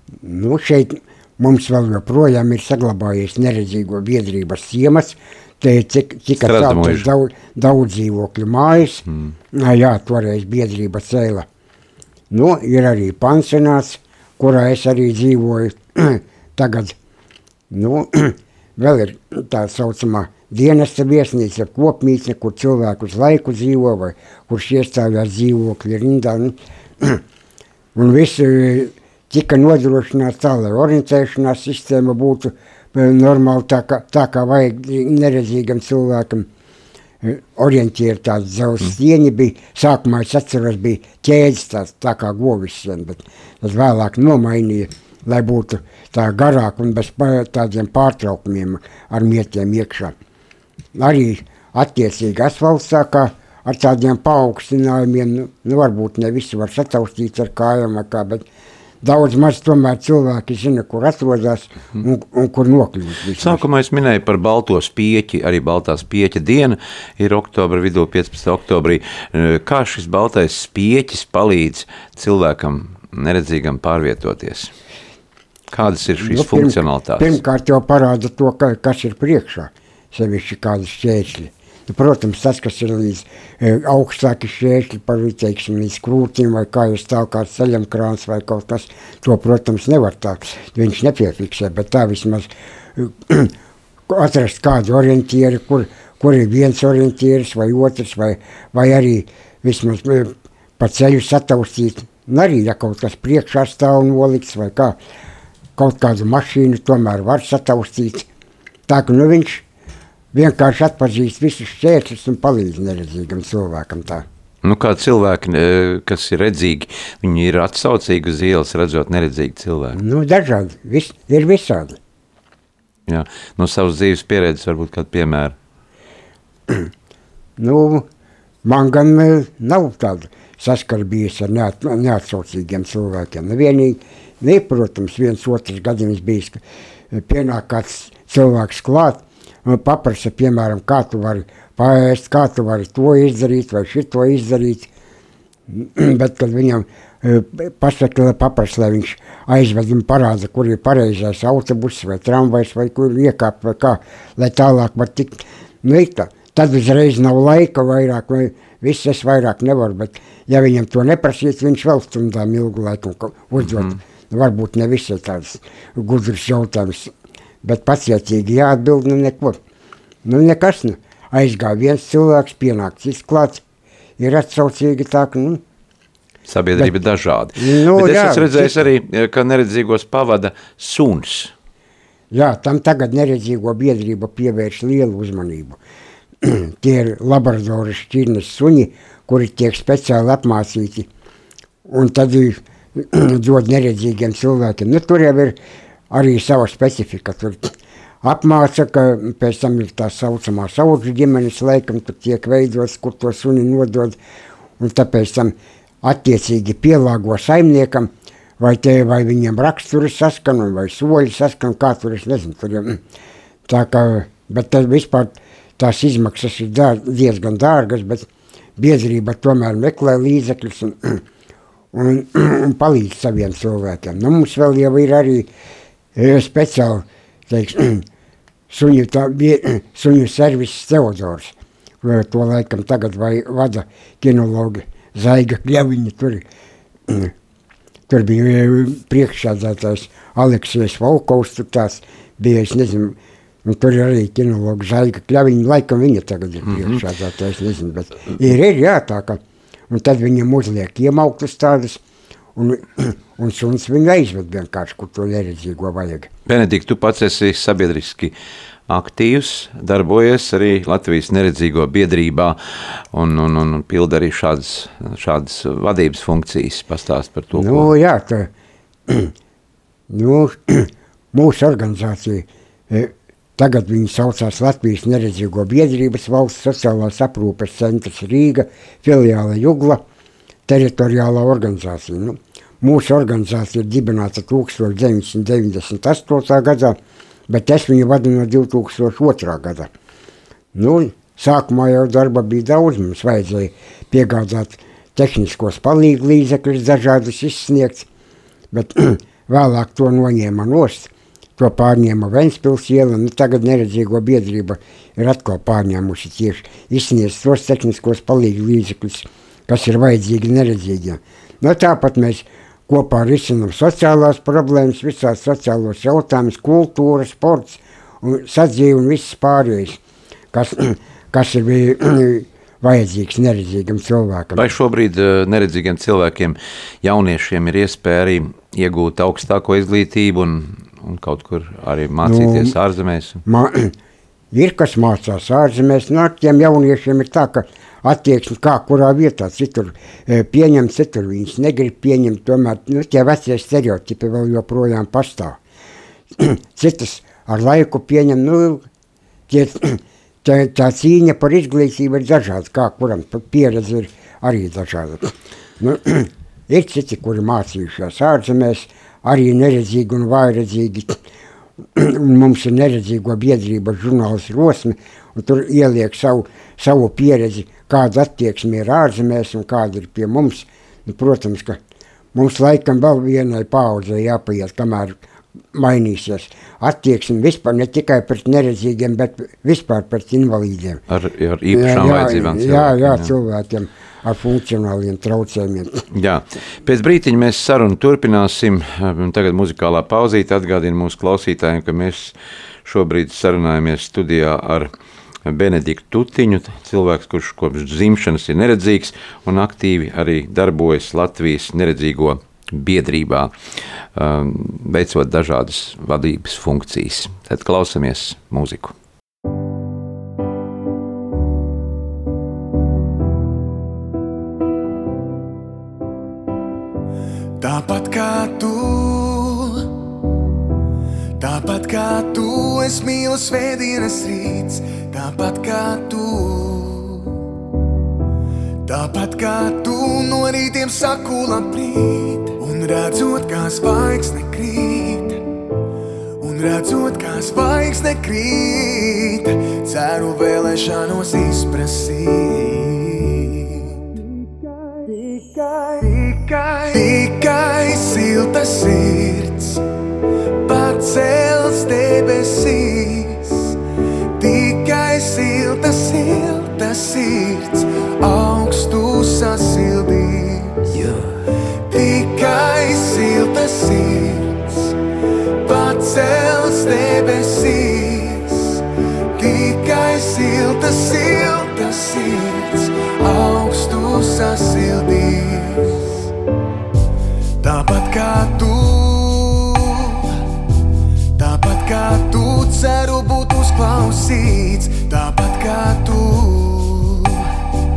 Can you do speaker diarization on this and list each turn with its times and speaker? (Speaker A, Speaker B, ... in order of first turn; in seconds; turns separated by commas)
Speaker A: 0.2-11.4, Speaker B: 6.4-7.1, Speaker A: 12.3-16.9, Speaker A: 17.7-27.2, Speaker A: 27.9-36.5, Speaker A: 37.2-50.1, Speaker A: 50.9-58.5, Speaker A: 59.0-63.6, Speaker B: 63.4-74.7, Speaker B: 75.7-77.4, Speaker A: 76.2-93.5, Speaker A: 94.1-105.0, Speaker A: 105.8-108.3, Speaker A: 108.9-109.6, Speaker A: 110.3-114.2, Speaker B: 114.6-120.0, Speaker A: 119.9-122.0, Speaker B: 123.1-125.5, Speaker A: 127.6-128.1, Speaker A: 128.6-144.9, Speaker A: 145.7-169.6, Speaker A: 170.2-173.6, Speaker A: 174.2-175.6, Speaker B: 176.5-181.5, Speaker A: 177.6-178.8, Speaker A: 182.3-185.8, Speaker A: 186.4-191.1, Speaker A: 191.9-195.6, Speaker A: 196.1-204.2, Speaker A: 204.8-213.0, Speaker A: 213.7-221.2, Speaker A: 221.9-225.5, Speaker A: 226.2-228.1, Speaker A: 228.7-236.4, Speaker A: 237.1-237.3, Speaker A: 238.1-252.0, Speaker B: 246.7-247.0, Speaker A: 252.6-256.3, Speaker B: 256.5-258.3, Speaker B: 258.9-267.9, Speaker A: 267.5-268.5, Speaker A: 269.1-269.3, Speaker A: 270.1-280.0, Speaker A: 280.7-287.0, Speaker A: 287.5-289.9, Speaker A: 290.7-298.1, Speaker A: 298.7-320.0, Speaker A: 320.5-324.6, Speaker B: 324.6-333.4, Speaker A: 332.2-332.8, Speaker A: 333.4-333.9, Speaker A: 334.5-345.6, Speaker A: 346.4-348.9, Speaker A: 349.5-361.2, Speaker A: 361.9-371.8, Speaker A: 372.3-375.2, Speaker A: 375.7-381.0, Speaker B: 381.1-383.3, Speaker A: 381.7-386.1, Speaker B: 386.1-394.9, Speaker B: 395.4-408.9, Speaker C: 417.6-419.9, Speaker C: 421.4-427.4, Speaker C: 428.9-435.4, Speaker C: 436.4-444.2, Speaker C: 445.0-449.8, Speaker C: 450.6-453.8, Speaker C: 454.4-461.1, Speaker C: 461.9-464.9, Speaker C: 465.6-468.8, Speaker C: 469.4-476.3, Speaker C: 477.6-480.4, Speaker C: 481.4-487.5